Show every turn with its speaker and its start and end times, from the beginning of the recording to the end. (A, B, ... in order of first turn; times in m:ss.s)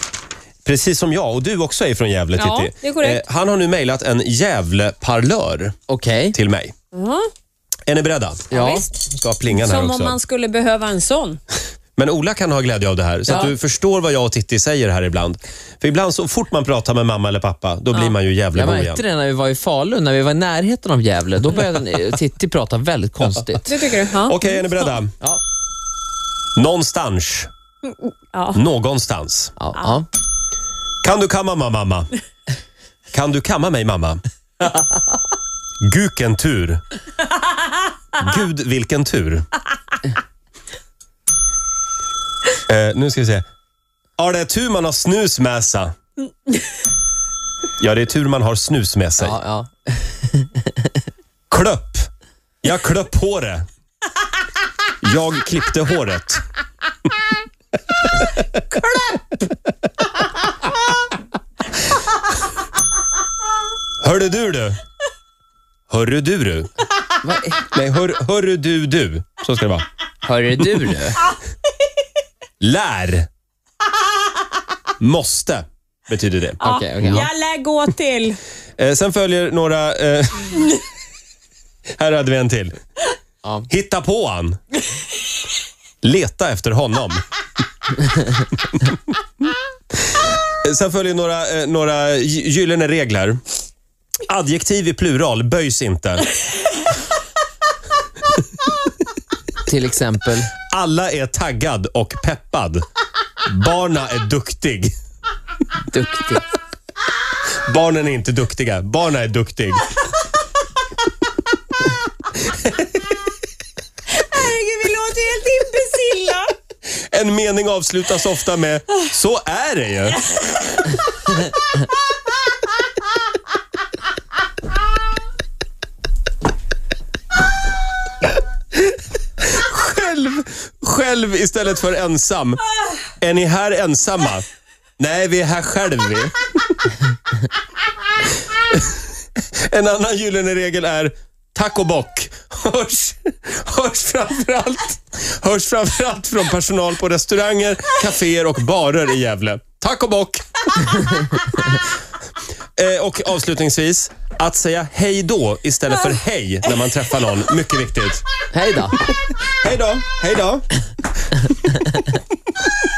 0:00.6-0:05.7 A
0:02.4-0:03.2 B
0:05.9-0:06.4 C
0:06.3-0:06.7 A
0:06.9-0:07.3 B
0:07.9-0:08.5 A
0:08.5-0:08.9 C
0:08.5-0:11.4 B
0:09.1-0:10.2 A
0:12.0-0:19.0 A
0:13.3-0:13.5 C
0:18.5-0:23.7 C
0:23.7-0:24.9 B
0:24.2-0:25.1 A
0:26.6-0:27.5 A
0:27.8-0:28.6 B
0:28.5-0:29.5 A
0:29.6-0:30.1 C
0:31.0-0:32.1 A
0:33.1-0:34.2 A
0:35.8-0:36.8 A
0:38.2-0:39.5 A
0:42.7-0:43.4 A
0:44.2-0:45.9 A
0:47.8-0:49.4 A
0:49.2-0:51.0 C
0:51.5-0:52.1 A
0:52.6-0:53.6 A
0:55.0-0:56.4 A
1:04.0-1:04.8 A
1:05.9-1:06.7 A
1:07.2-1:07.7 C
1:07.7-1:09.8 A
1:10.2-1:11.3 C
1:12.6-1:13.3 A
1:15.0-1:17.2 A
1:16.6-1:17.3 C
1:16.6-1:18.4 B
1:18.8-1:20.8 A
1:22.0-1:22.7 A
1:23.7-1:24.6 A
1:26.0-1:27.2 A
1:28.6-1:29.0 A
1:30.5-1:33.4 A
1:34.3-1:36.3 A
1:39.6-1:40.5 C
1:40.7-1:42.8 A
1:43.4-1:44.9 A
1:45.9-1:46.5 C
1:47.6-1:50.0 A
1:52.4-1:53.0 A
1:54.1-1:56.5 B
1:57.1-2:00.3 A
2:09.4-2:12.6 A
2:13.2-2:14.4 A
2:15.0-2:16.8 A
2:19.6-2:31.0 A
2:32.8-2:38.2 A
2:38.5-2:39.0 C
2:39.1-2:40.7 A